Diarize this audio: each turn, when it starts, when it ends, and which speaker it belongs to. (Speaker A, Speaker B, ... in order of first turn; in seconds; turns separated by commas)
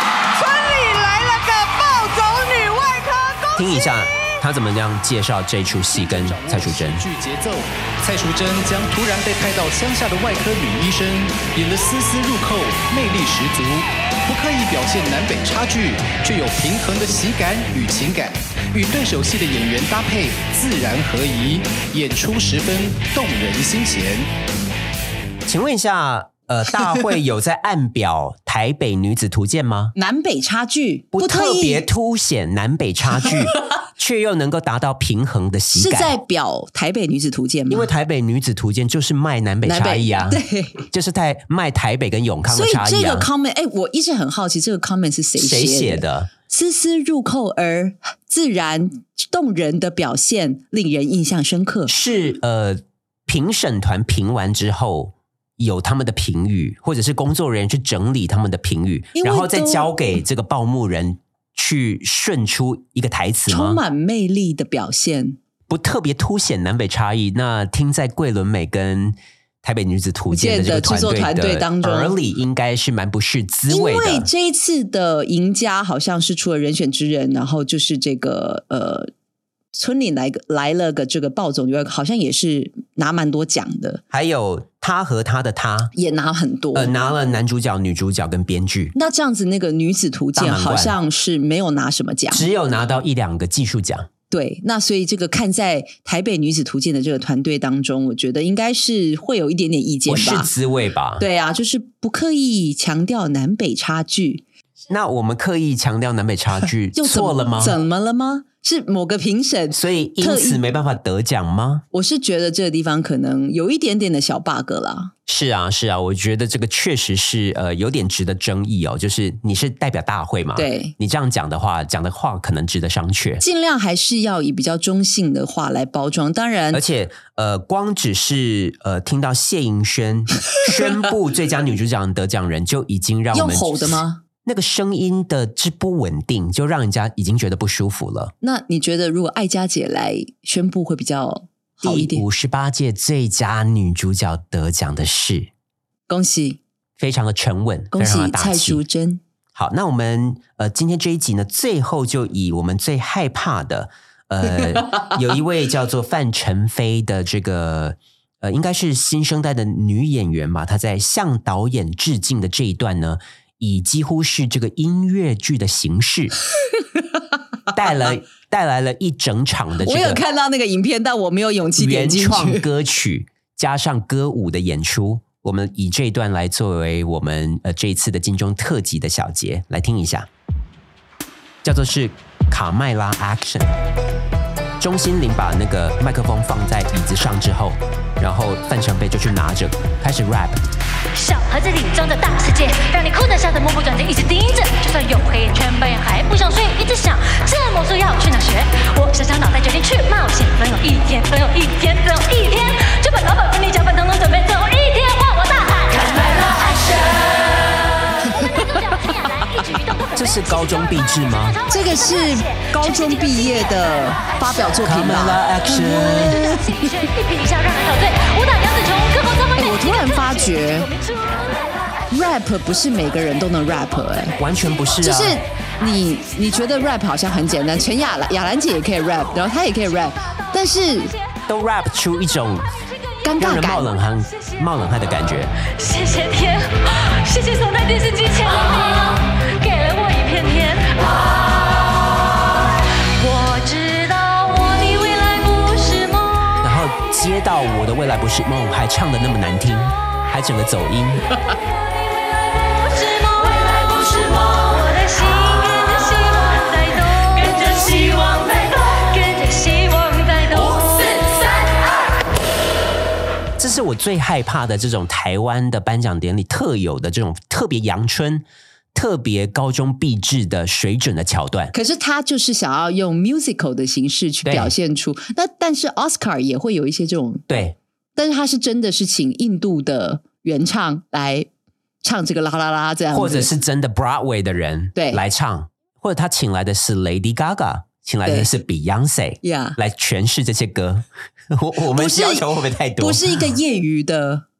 Speaker A: 0.3-3.8, Speaker B: 3.5-7.1, Speaker C: 5.9-24.3, Speaker B: 25.4-29.9, Speaker D: 29.9-31.8, Speaker B: 31.1-36.1, Speaker D: 35.7-37.9, Speaker B: 37.7-43.3, Speaker D: 39.6-40.8, Speaker D: 42.5-51.9, Speaker B: 45.4-46.3, Speaker B: 51.9-63.8, Speaker D: 59.1-59.9, Speaker D: 63.5-65.4, Speaker B: 65.7-74.3, Speaker D: 70.3-72.2, Speaker D: 73.7-79.1, Speaker D: 79.7-84.0, Speaker B: 84.1-85.9, Speaker D: 85.9-86.9, Speaker B: 86.7-88.9, Speaker D: 88.9-92.4, Speaker B: 90.3-91.0, Speaker B: 92.3-94.1, Speaker D: 94.3-100.5, Speaker B: 100.0-101.2, Speaker D: 101.2-104.4, Speaker B: 104.9-107.8, Speaker D: 106.9-110.6, Speaker B: 109.7-111.8, Speaker D: 111.9-115.1, Speaker B: 115.3-123.4, Speaker D: 120.5-120.9, Speaker D: 123.4-126.8, Speaker B: 126.7-138.3, Speaker D: 133.3-134.2, Speaker D: 138.4-142.2, Speaker B: 141.8-145.5, Speaker D: 146.1-146.6, Speaker B: 147.0-148.8, Speaker D: 147.9-149.2, Speaker B: 149.5-166.3, Speaker B: 167.7-170.2, Speaker D: 169.8-172.6, Speaker B: 171.8-180.3, Speaker B: 181.6-183.7, Speaker B: 184.8-190.6, Speaker E: 191.1-207.8, Speaker E: 208.6-214.7, Speaker B: 210.2-211.6, Speaker D: 211.7-216.6, Speaker B: 214.8-216.4, Speaker E: 216.2-221.8, Speaker D: 219.6-220.9, Speaker D: 222.1-224.3, Speaker B: 224.4-225.4, Speaker D: 225.0-231.1, Speaker B: 231.5-232.8, Speaker D: 233.2-233.9, Speaker B: 233.4-235.5, Speaker E: 234.3-234.6, Speaker E: 235.8-242.1, Speaker E: 243.2-246.4, Speaker B: 246.6-251.2, Speaker E: 251.9-261.9, Speaker B: 263.6-271.7, Speaker D: 271.7-277.4, Speaker B: 274.4-274.7, Speaker B: 277.5-277.8, Speaker D: 278.1-281.5, Speaker D: 282.0-283.5, Speaker B: 283.1-293.6, Speaker D: 284.9-285.2, Speaker D: 289.4-289.8, Speaker D: 291.9-292.4, Speaker D: 293.0-294.4